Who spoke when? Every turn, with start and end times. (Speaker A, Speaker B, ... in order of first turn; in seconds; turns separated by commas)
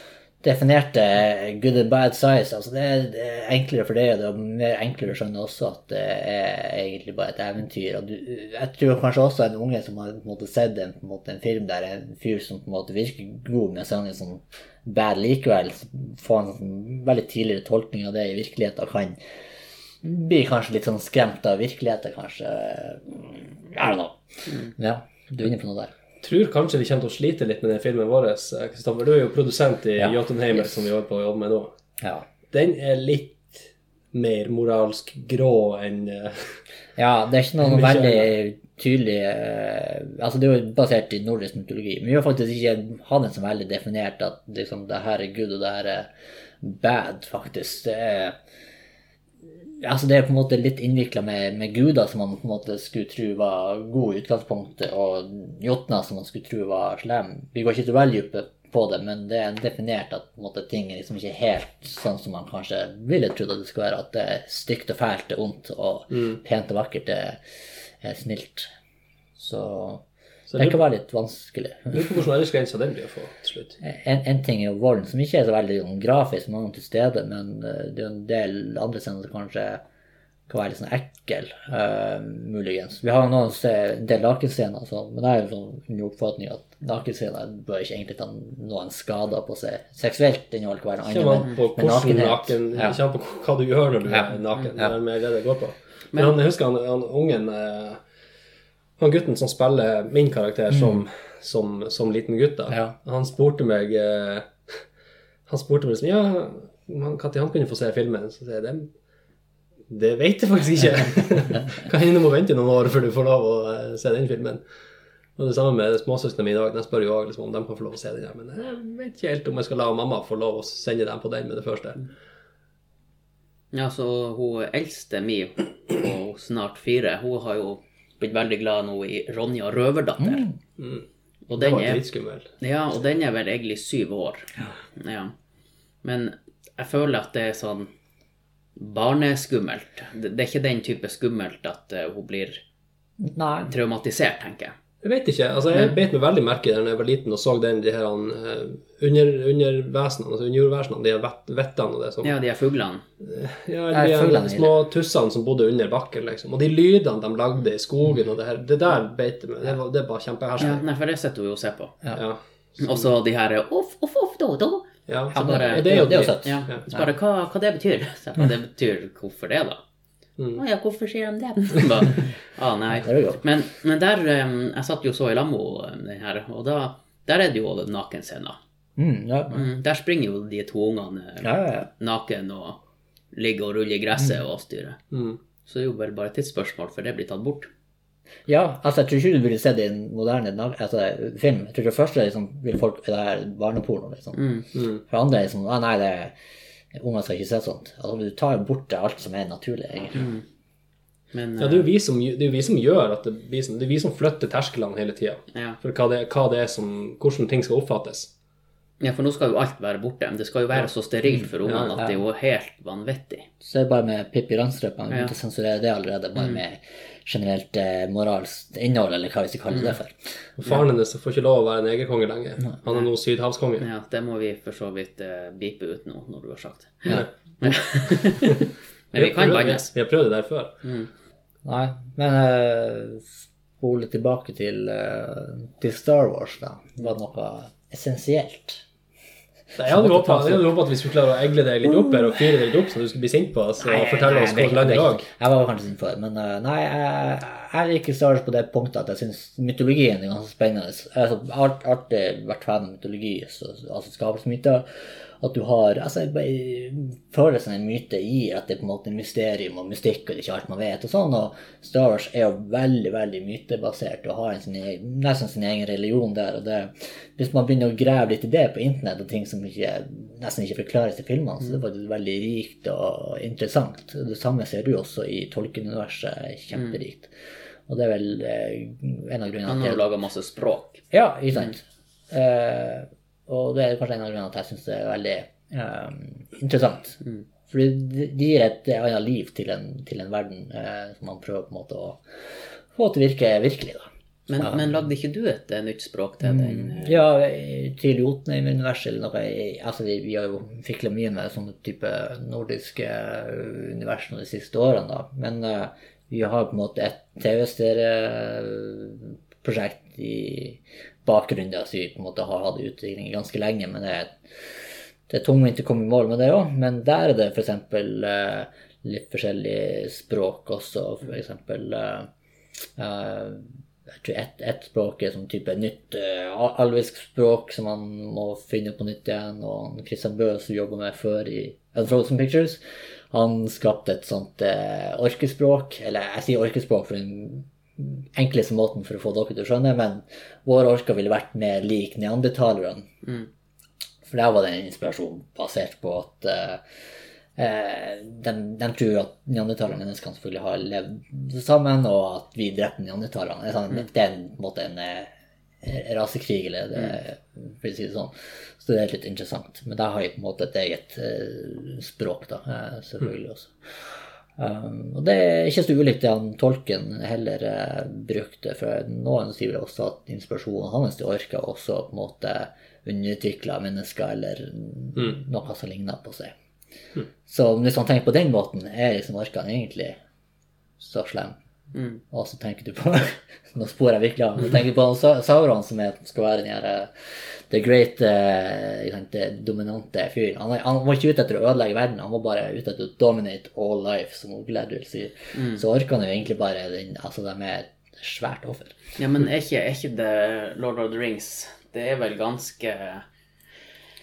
Speaker A: 0.4-19.2, Speaker A: 20.0-25.9, Speaker B: 26.2-31.7, Speaker A: 30.0-30.9, Speaker A: 32.0-32.2, Speaker B: 32.5-36.6, Speaker A: 37.0-46.1, Speaker B: 37.6-38.3, Speaker A: 46.6-48.4, Speaker A: 49.8-67.4, Speaker A: 68.0-68.7, Speaker A: 69.4-70.0, Speaker B: 70.5-70.8, Speaker A: 70.6-72.2, Speaker B: 71.9-73.8, Speaker A: 73.8-79.8, Speaker A: 80.5-93.0, Speaker B: 91.1-98.0, Speaker A: 94.1-94.9, Speaker B: 99.0-104.5, Speaker A: 100.7-101.0, Speaker A: 102.7-102.9, Speaker B: 105.5-108.9, Speaker B: 109.9-114.6, Speaker B: 115.4-122.0, Speaker C: 123.7-130.5, Speaker A: 130.2-130.5, Speaker B: 130.8-131.0, Speaker C: 131.5-132.0, Speaker B: 131.6-132.5, Speaker C: 132.6-135.3, Speaker C: 136.0-137.9, Speaker C: 138.8-142.6, Speaker A: 143.2-143.7, Speaker C: 143.7-144.7, Speaker B: 145.0-152.3, Speaker C: 152.2-153.0, Speaker B: 153.2-160.8, Speaker A: 153.9-154.7, Speaker C: 160.6-162.0, Speaker B: 162.1-163.0, Speaker C: 162.8-169.8, Speaker B: 165.1-166.8, Speaker A: 165.3-167.1, Speaker C: 170.5-178.6, Speaker A: 173.0-173.4, Speaker A: 179.0-179.7, Speaker C: 179.5-182.8, Speaker A: 181.4-181.9, Speaker C: 183.3-185.0, Speaker B: 185.1-185.4, Speaker C: 185.6-187.7, Speaker A: 188.5-194.4, Speaker C: 194.3-194.7, Speaker B: 194.7-195.0, Speaker A: 195.1-196.3, Speaker A: 196.9-200.3, Speaker C: 200.1-200.4, Speaker C: 201.3-201.9, Speaker B: 201.6-208.3, Speaker C: 205.5-205.8, Speaker C: 209.0-213.5, Speaker B: 211.6-212.0, Speaker A: 213.6-220.2, Speaker B: 220.6-223.9, Speaker C: 223.8-229.9, Speaker B: 229.1-230.7, Speaker C: 230.8-231.1, Speaker A: 231.6-238.8, Speaker B: 239.8-245.3, Speaker A: 239.9-240.7, Speaker A: 243.8-254.8, Speaker A: 255.4-277.3, Speaker A: 277.9-280.0, Speaker C: 279.7-281.0, Speaker A: 281.1-287.2, Speaker A: 287.7-292.2, Speaker A: 292.9-294.1, Speaker C: 294.5-297.2, Speaker A: 294.6-294.9, Speaker A: 296.4-314.4, Speaker A: 315.3-322.3, Speaker A: 323.0-332.8, Speaker A: 333.3-343.1, Speaker A: 344.2-346.8, Speaker A: 347.6-355.3, Speaker A: 355.8-376.5, Speaker A: 377.5-380.2, Speaker A: 381.0-381.6, Speaker C: 381.9-382.2, Speaker A: 382.3-398.9, Speaker C: 395.5-395.8, Speaker C: 399.2-403.2